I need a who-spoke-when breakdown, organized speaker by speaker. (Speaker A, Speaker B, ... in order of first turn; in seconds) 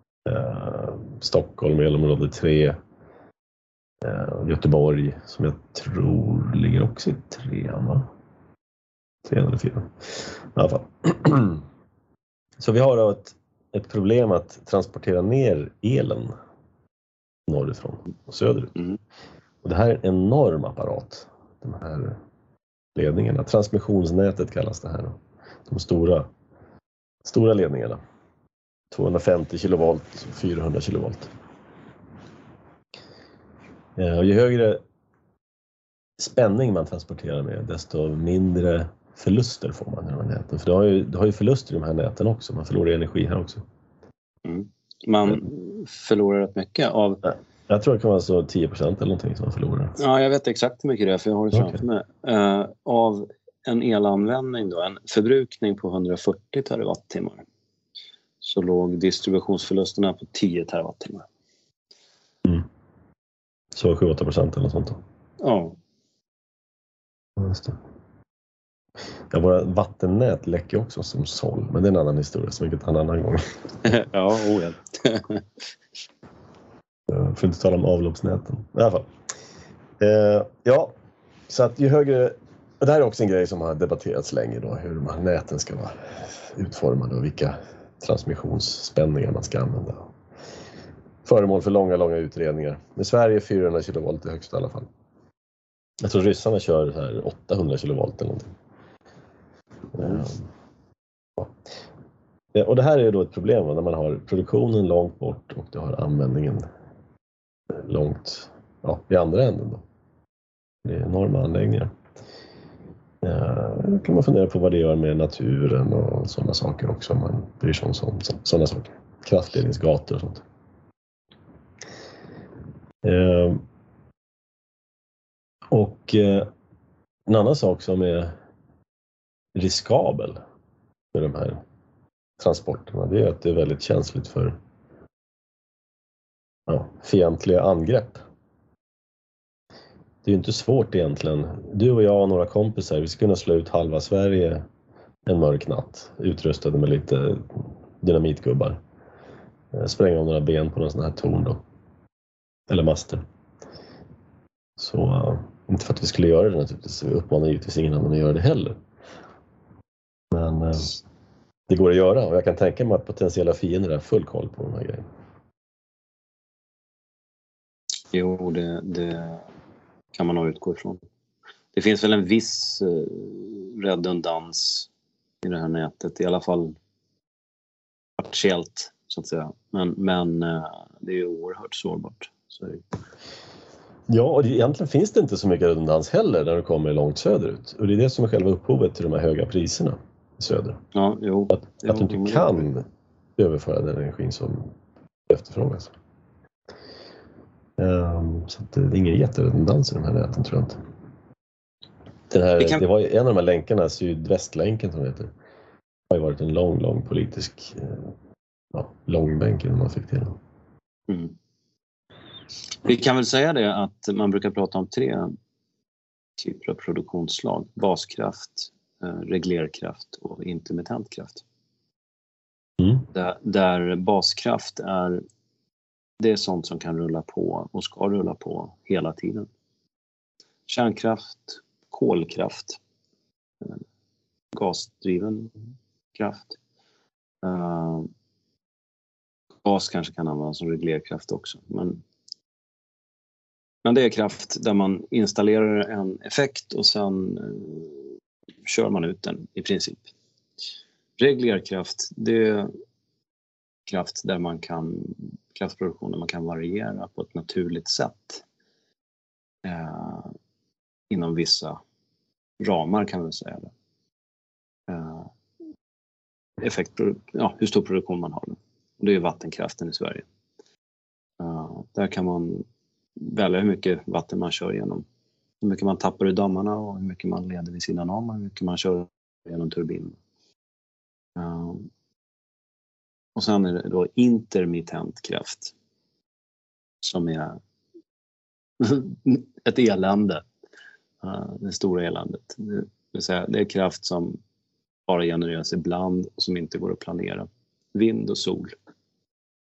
Speaker A: 0.2-2.8, 4.0-8.1, 9.2-11.6, 12.6-16.4, 17.5-18.8, 19.6-22.2, 22.9-26.3, 27.2-28.0, 28.9-31.3, 34.0-34.8, 36.2-43.6, 47.3-50.0, 51.5-51.8, 63.7-65.0, 67.4-67.8, 69.3-74.0, 77.1-79.1, 80.0-80.9, 81.5-90.0, 91.2-94.9, 96.0-98.5, 100.0-100.4, 102.5-106.7, 107.7-109.8, 110.8-111.9, 113.2-120.4, 123.0-123.6, 125.7-126.5, 127.3-128.3, 129.5-130.4, 131.1-131.6, 132.4-134.6, 136.7-138.2, 140.2-144.7, 145.3-148.8, 149.7-151.6, 152.7-153.2, 154.8-158.8, 160.3-160.9, 161.7-165.1, 184.1-190.8, 191.5-192.9, 193.4-194.7, 195.3-195.9, 197.8-200.8, 202.3-205.3, 206.1-208.1, 208.7-210.4, 222.8-223.1
Speaker B: 44.5-47.2, 50.0-57.5, 58.4-61.3, 65.4-65.8, 73.8-75.4, 100.0-100.2, 168.1-169.5, 170.1-171.0, 171.7-174.9, 175.4-176.8, 178.2-182.8, 190.9-192.7, 211.1-211.4, 212.8-215.3, 216.4-221.4, 223.1-225.2, 226.2-229.5, 230.7-232.8, 234.5-235.5, 236.2-236.6, 237.4-238.1, 239.7-242.0, 243.8-248.0, 248.7-250.1, 251.2-252.7, 253.9-258.4, 259.6-260.3, 261.1-261.8, 262.6-263.7, 264.9-265.3, 266.6-270.3, 271.4-272.6, 273.2-275.1, 275.6-280.2, 281.4-281.9, 283.4-285.7, 287.0-287.6, 288.8-290.4, 291.2-294.4, 295.1-298.7